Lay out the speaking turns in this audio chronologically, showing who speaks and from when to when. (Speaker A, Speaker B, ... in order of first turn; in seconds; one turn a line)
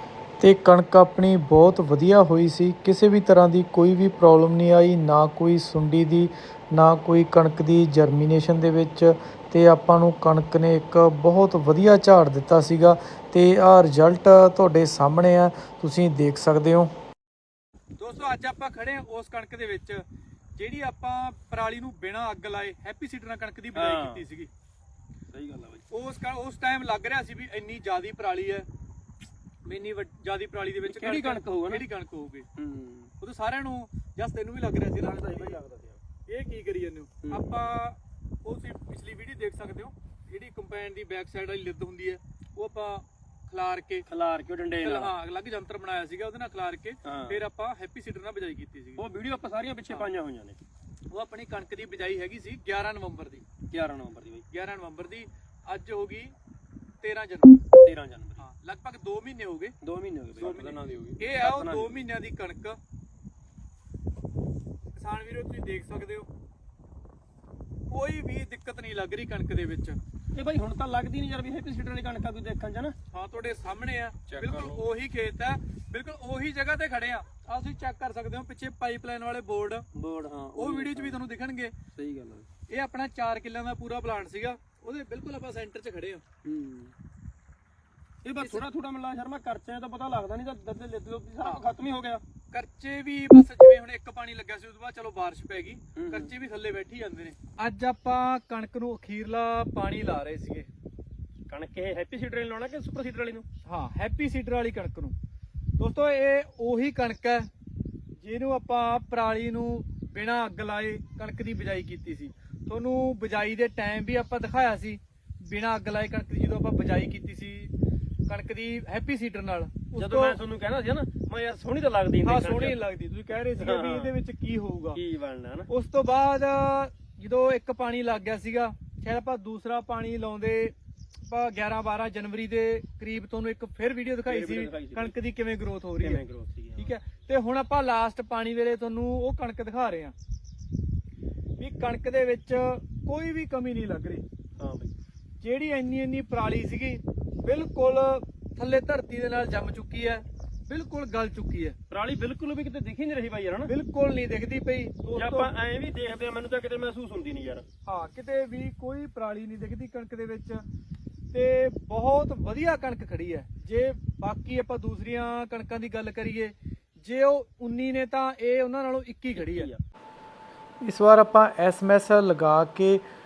Speaker A: 0.4-16.9
Speaker B: 18.0-20.0
Speaker B: 20.6-24.5
Speaker C: 23.7-24.2
Speaker C: 25.3-25.8
Speaker B: 25.9-28.7
Speaker B: 29.6-32.5
Speaker C: 30.9-31.8
Speaker C: 32.5-33.1
Speaker B: 33.2-35.6
Speaker C: 35.0-36.0
Speaker B: 36.3-44.1
Speaker C: 44.0-45.1
Speaker B: 44.8-49.1
Speaker C: 47.0-47.4
Speaker C: 49.0-50.6
Speaker B: 51.1-53.5
Speaker C: 53.7-54.5
Speaker B: 54.5-56.3
Speaker B: 57.0-57.7
Speaker C: 57.8-58.4
Speaker B: 58.4-59.8
Speaker C: 59.8-62.0
Speaker B: 60.4-62.8
Speaker B: 65.0-66.3
Speaker B: 67.9-70.0
Speaker C: 70.3-73.0
Speaker B: 73.1-79.9
Speaker C: 74.3-74.8
Speaker C: 79.9-81.2
Speaker B: 80.5-81.7
Speaker C: 81.9-82.5
Speaker B: 82.7-86.2
Speaker C: 86.4-86.9
Speaker C: 88.2-92.2
Speaker B: 88.4-88.6
Speaker B: 92.5-100.7
Speaker C: 96.0-96.3
Speaker C: 101.5-103.5
Speaker B: 103.7-105.1
Speaker B: 105.8-107.5
Speaker B: 108.2-117.7
Speaker B: 118.3-120.4
Speaker C: 119.9-122.8
Speaker B: 122.2-125.0
Speaker C: 123.5-124.1
Speaker C: 124.9-125.7
Speaker B: 125.7-136.2
Speaker C: 134.2-135.2
Speaker C: 136.0-136.9
Speaker B: 136.8-140.1
Speaker B: 141.6-144.2
Speaker C: 144.6-144.9
Speaker B: 145.4-151.8
Speaker C: 151.9-153.7
Speaker B: 153.7-155.5
Speaker C: 155.1-157.7
Speaker B: 157.8-160.6
Speaker B: 161.3-169.7
Speaker C: 169.3-169.8
Speaker A: 170.8-173.0